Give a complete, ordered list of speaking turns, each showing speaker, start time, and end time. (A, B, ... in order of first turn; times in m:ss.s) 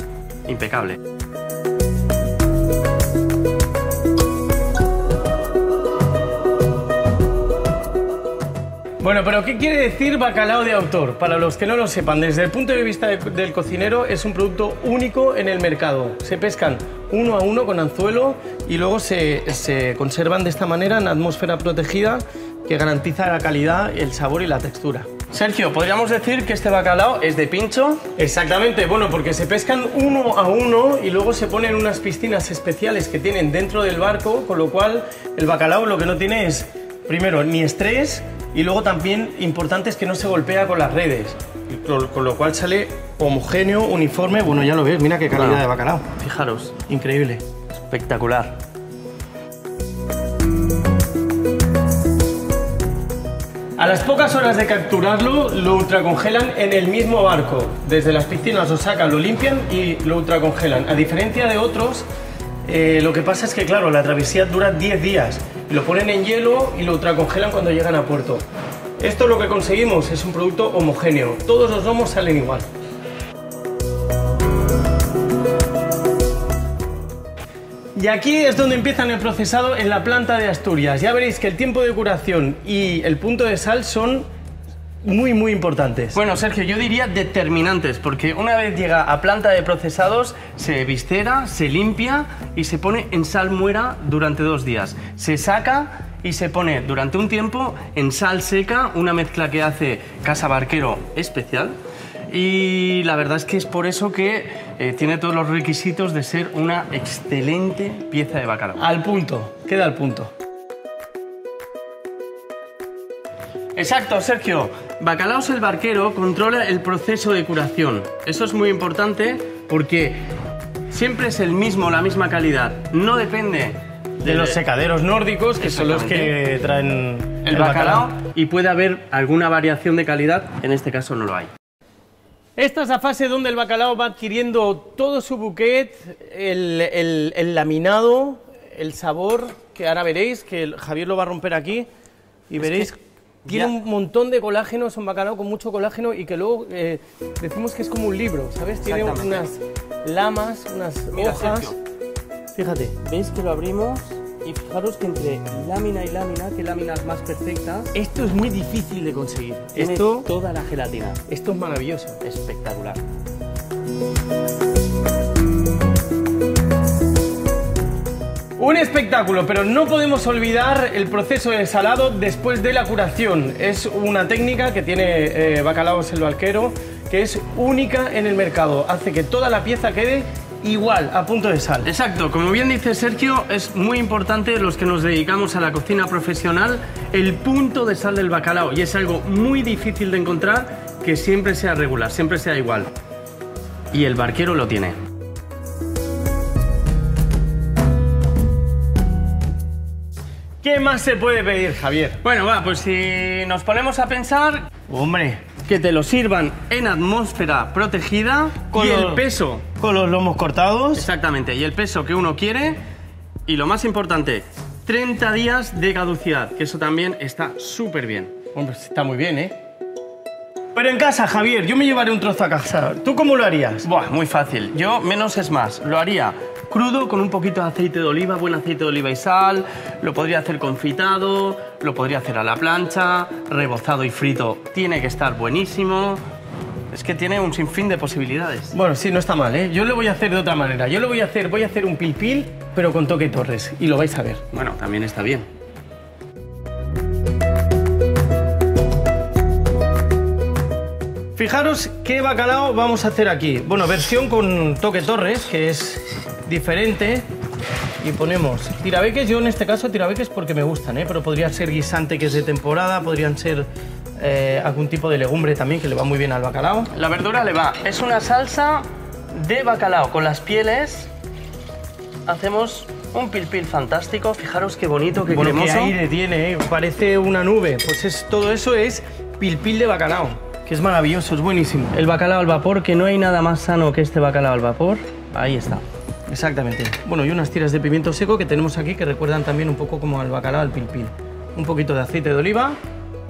0:00.4-0:01.0 A
0:09.0-0:25.1 B
0:25.3-0:28.0 A
0:28.2-0:46.0 B
0:45.3-0:45.6 A
0:46.2-0:46.8 A
0:46.9-0:47.4 B
0:47.7-0:48.5 A
0:53.8-1:02.0 B
1:02.6-1:08.4 B
1:09.0-1:12.6 B
1:17.9-1:24.3 B
1:25.0-1:26.2 B
1:26.1-1:41.7 A
1:42.3-1:48.8 A
1:48.8-1:50.3 B
1:53.7-2:00.2 A
2:00.9-2:04.6 A
2:04.2-2:08.1 B
2:05.6-2:06.3 A
2:07.4-2:11.5 A
2:12.6-2:21.9 B
2:22.5-2:31.7 B
2:22.6-2:22.9 A
2:23.4-2:23.7 A
2:28.8-2:29.4 A
2:31.1-2:31.8 A
2:32.5-2:32.9 B
2:33.0-2:37.9 A
2:37.9-2:40.3 B
2:39.7-2:41.2 A
2:41.3-2:42.2 B
2:42.2-2:43.0 A
2:48.6-3:01.9 B
3:01.8-3:12.9 A
3:13.9-3:15.0 A
3:20.6-3:22.2 B
3:22.2-3:24.7 A
3:24.9-3:25.4 B
3:25.6-3:29.6 A
3:28.7-3:29.2 B
3:29.8-3:31.1 B
3:30.9-3:32.8 A
3:33.4-3:38.3 A
3:38.5-3:39.5 B
3:40.7-3:43.9 B
3:43.8-3:56.2 A
3:56.9-3:58.7 A
3:58.7-4:04.4 B
4:04.5-4:05.4 A
4:11.4-4:17.2 B
4:18.0-4:23.7 B
4:24.2-4:26.9 B
4:26.9-4:31.1 A
4:32.2-4:35.9 A
4:35.3-4:41.9 B
4:41.9-4:45.8 A
4:46.3-4:52.8 B